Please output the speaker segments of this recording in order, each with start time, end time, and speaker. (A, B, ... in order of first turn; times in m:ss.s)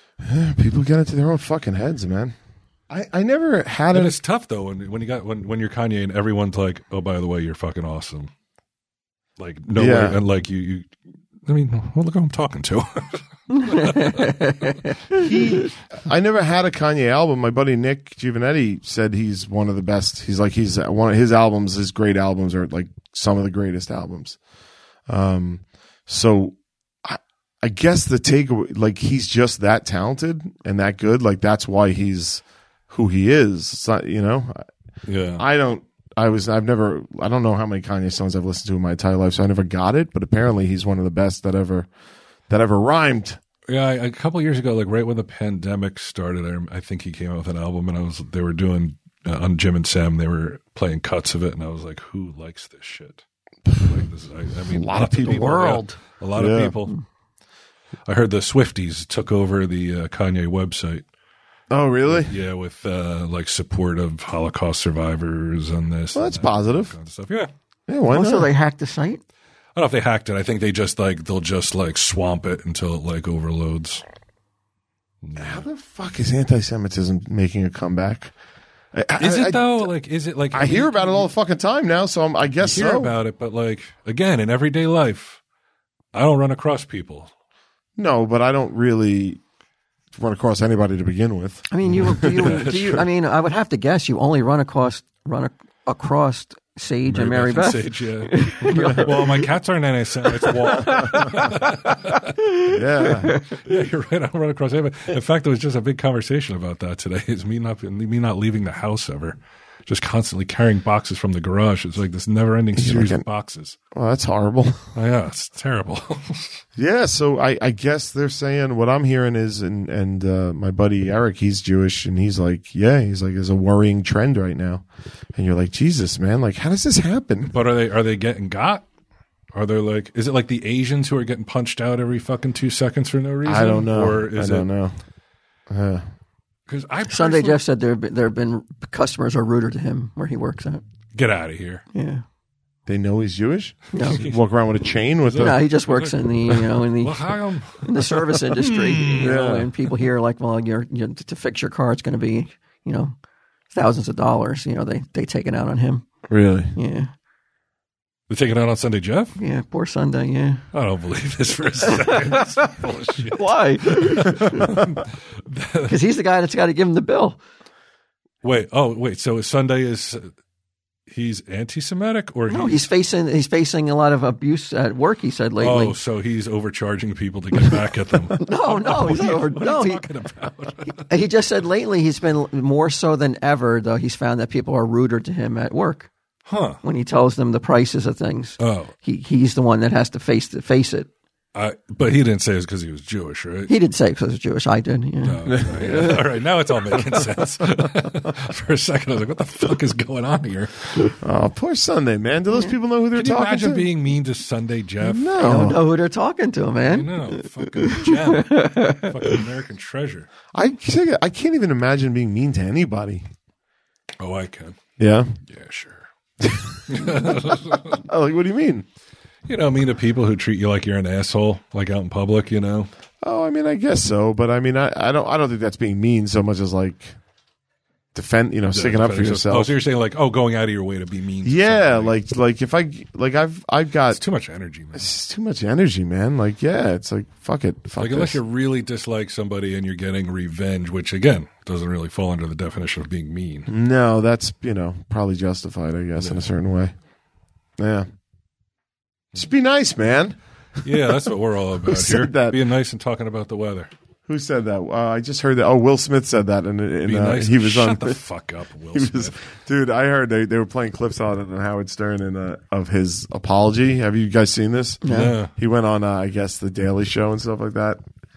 0:00.2-0:02.4 A
0:02.9-0:04.2 A
0:03.9-0:08.3 B
0:09.4-0:10.9 B
0:09.8-0:10.2 A
0:11.4-0:14.4 B
0:13.5-0:15.6 C
0:15.1-0:24.4 A
0:25.1-0:34.7 A
0:35.1-0:35.4 B
0:35.4-0:41.9 A
0:42.5-0:43.4 A
0:43.7-0:53.2 B
0:53.8-0:57.0 B
0:54.7-0:55.5 A
0:55.2-0:56.0 C
0:56.4-0:56.8 A
0:58.1-1:01.0 B
1:01.7-1:02.3 A
1:02.1-1:07.5 B
1:06.1-1:06.9 A
1:07.9-1:08.5 A
1:08.1-1:09.2 C
1:09.8-1:14.0 B
1:15.2-1:15.7 B
1:15.4-1:18.3 A
1:18.9-1:19.9 A
1:19.2-1:21.3 B
1:20.5-1:23.1 A
1:22.6-1:25.4 B
1:26.1-1:27.3 B
1:28.0-1:29.4 A
1:30.1-1:32.8 A
1:31.7-1:39.4 C
1:32.2-1:33.0 B
1:37.1-1:42.4 B
1:40.4-1:41.3 C
1:42.4-1:43.6 C
1:42.7-1:43.4 A
1:43.0-1:53.8 B
1:52.8-1:53.2 A
1:53.9-1:54.8 A
1:55.0-1:56.6 B
1:56.8-2:07.5 A
2:07.5-2:08.9 B
2:09.5-2:14.7 B
2:13.4-2:15.0 A
2:15.7-2:16.0 A
2:16.7-2:17.6 B
2:17.1-2:20.8 C
2:21.1-2:21.8 B
2:21.9-2:22.2 C
2:22.9-2:25.6 A
2:23.9-2:24.2 C
2:24.0-2:24.4 B
2:25.2-2:29.5 B
2:25.4-2:27.2 C
2:27.8-2:33.2 C
2:29.2-2:29.7 A
2:33.7-2:36.1 C
2:36.3-2:36.7 A
2:36.8-2:37.1 C
2:38.3-2:39.4 B
2:39.4-2:40.6 C
2:40.7-2:46.0 B
2:41.8-2:42.7 C
2:43.3-2:44.8 C
2:45.9-2:47.4 C
2:48.4-2:50.3 B
2:51.1-2:52.8 B
2:52.5-2:56.0 C
2:55.6-3:01.0 B
2:58.4-3:00.0 C
3:01.1-3:06.1 C
3:06.5-3:06.8 B
3:06.8-3:11.1 C
3:08.6-3:08.9 B
3:11.5-3:13.7 B
3:13.7-3:16.2 C
3:15.2-3:21.2 B
3:15.5-3:15.9 A
3:21.2-3:23.9 A
3:23.1-3:25.8 B
3:25.0-3:25.8 A
3:25.4-3:29.4 C
3:26.9-3:30.3 B
3:30.5-3:33.2 A
3:34.2-3:34.8 B
3:35.0-3:35.4 A
3:35.5-3:36.1 B
3:36.4-3:38.8 A
3:36.9-3:38.0 B
3:39.5-3:42.9 B
3:43.2-3:47.2 A
3:48.1-3:49.7 A
3:48.7-3:52.2 B
3:51.4-3:54.2 A
3:54.1-3:55.1 B
3:54.9-3:58.4 A
3:58.0-4:03.7 B
4:03.7-4:07.0 A
4:06.2-4:06.5 B
4:07.8-4:08.1 A
4:09.3-4:10.4 A
4:10.8-4:13.9 B
4:11.8-4:12.6 A
4:14.3-4:18.2 A
4:17.0-4:19.4 B
4:18.9-4:28.0 A
4:25.0-4:25.4 C
4:25.1-4:25.5 B